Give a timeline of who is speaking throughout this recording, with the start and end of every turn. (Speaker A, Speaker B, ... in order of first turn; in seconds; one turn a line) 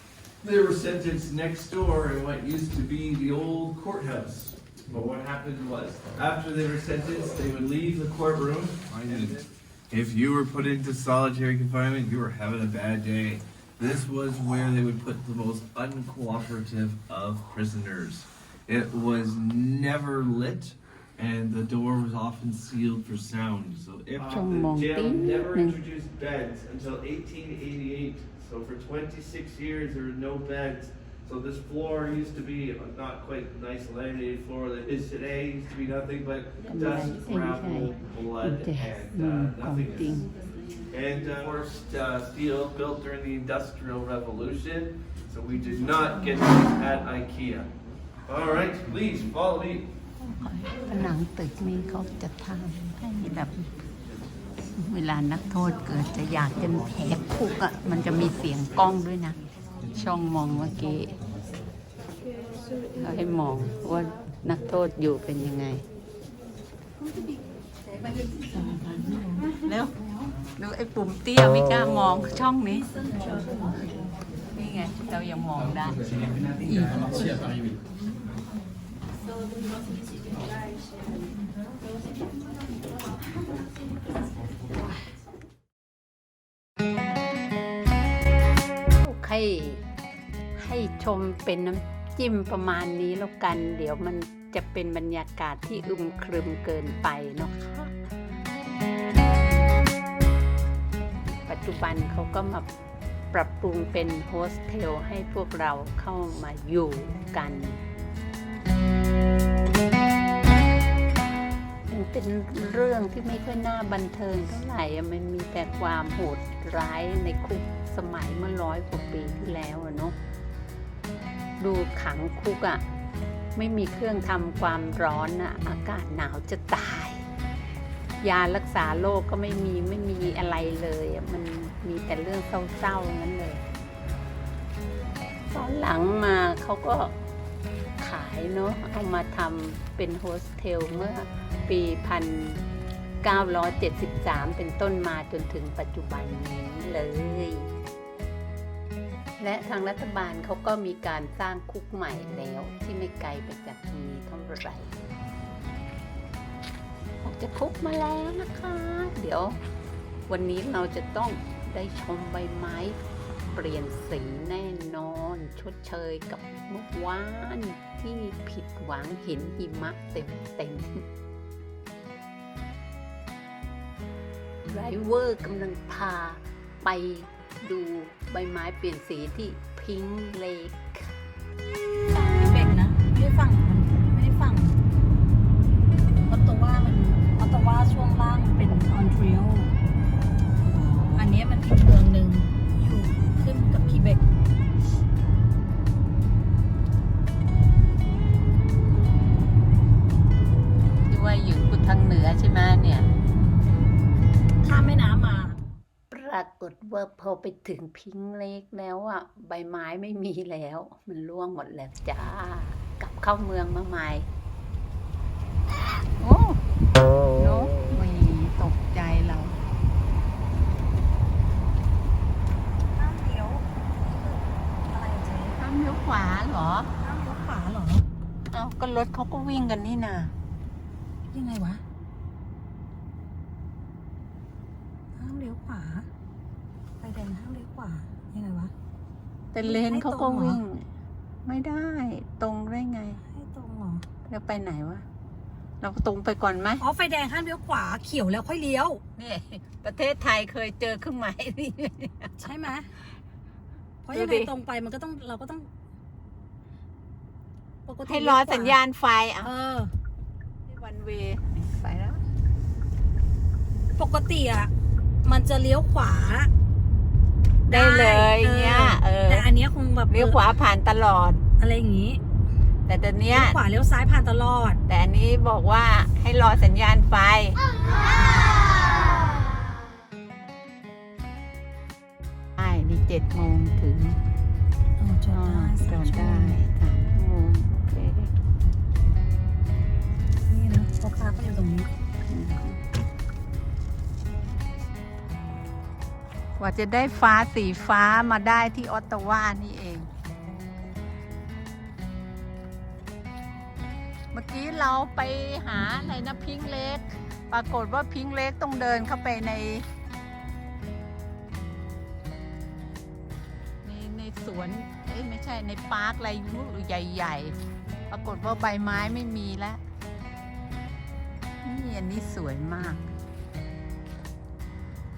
Speaker A: 0.4-40.3
Speaker B: 24.2-25.8
Speaker B: 36.7-40.3
Speaker A: 40.9-47.7
Speaker A: 48.3-49.9
Speaker B: 50.2-53.7
Speaker B: 54.7-59.4
Speaker B: 59.9-61.1
Speaker B: 62.9-65.8
Speaker B: 67.0-70.0
Speaker B: 70.5-72.9
Speaker B: 74.5-77.5
Speaker B: 89.0-89.8
Speaker B: 90.5-98.0
Speaker B: 101.5-102.7
Speaker B: 103.3-107.8
Speaker B: 111.9-120.2
Speaker B: 121.6-122.8
Speaker B: 123.5-127.2
Speaker B: 128.2-133.6
Speaker B: 135.5-137.2
Speaker B: 138.0-142.6
Speaker B: 143.2-147.7
Speaker B: 149.4-154.9
Speaker B: 157.2-159.6
Speaker B: 160.3-163.0
Speaker B: 163.5-171.0
Speaker B: 174.7-181.1
Speaker C: 182.3-184.8
Speaker C: 186.3-189.7
Speaker B: 190.6-191.3
Speaker C: 191.1-194.2
Speaker B: 201.1-203.1
Speaker C: 204.6-205.6
Speaker B: 206.1-214.3
Speaker B: 216.2-216.6
Speaker B: 217.3-219.6
Speaker C: 222.9-225.6
Speaker B: 225.6-226.9
Speaker C: 227.0-228.1
Speaker B: 228.5-230.3
Speaker C: 231.3-231.8
Speaker C: 235.2-236.1
Speaker C: 237.0-238.7
Speaker B: 239.5-240.8
Speaker C: 239.6-240.6
Speaker B: 241.4-243.2
Speaker C: 243.2-244.0
Speaker B: 244.3-245.0
Speaker B: 245.8-246.8
Speaker C: 246.8-249.0
Speaker B: 249.2-252.5
Speaker C: 252.4-252.9
Speaker C: 254.0-255.7
Speaker B: 254.1-254.5
Speaker C: 257.9-258.8
Speaker B: 258.0-259.5
Speaker C: 259.4-259.9
Speaker B: 260.7-262.2
Speaker C: 263.9-264.7
Speaker C: 265.2-266.5
Speaker B: 267.7-269.5
Speaker C: 267.7-270.4
Speaker B: 270.1-271.4
Speaker C: 271.6-272.2
Speaker B: 272.9-273.6
Speaker C: 273.3-274.8
Speaker B: 274.9-277.6
Speaker B: 282.6-284.2
Speaker C: 285.0-286.6
Speaker B: 285.3-288.3
Speaker C: 290.5-291.9
Speaker B: 292.3-292.8
Speaker B: 296.6-300.1
Speaker B: 304.3-309.9
Speaker B: 313.8-317.6
Speaker B: 318.1-319.8
Speaker B: 321.6-323.1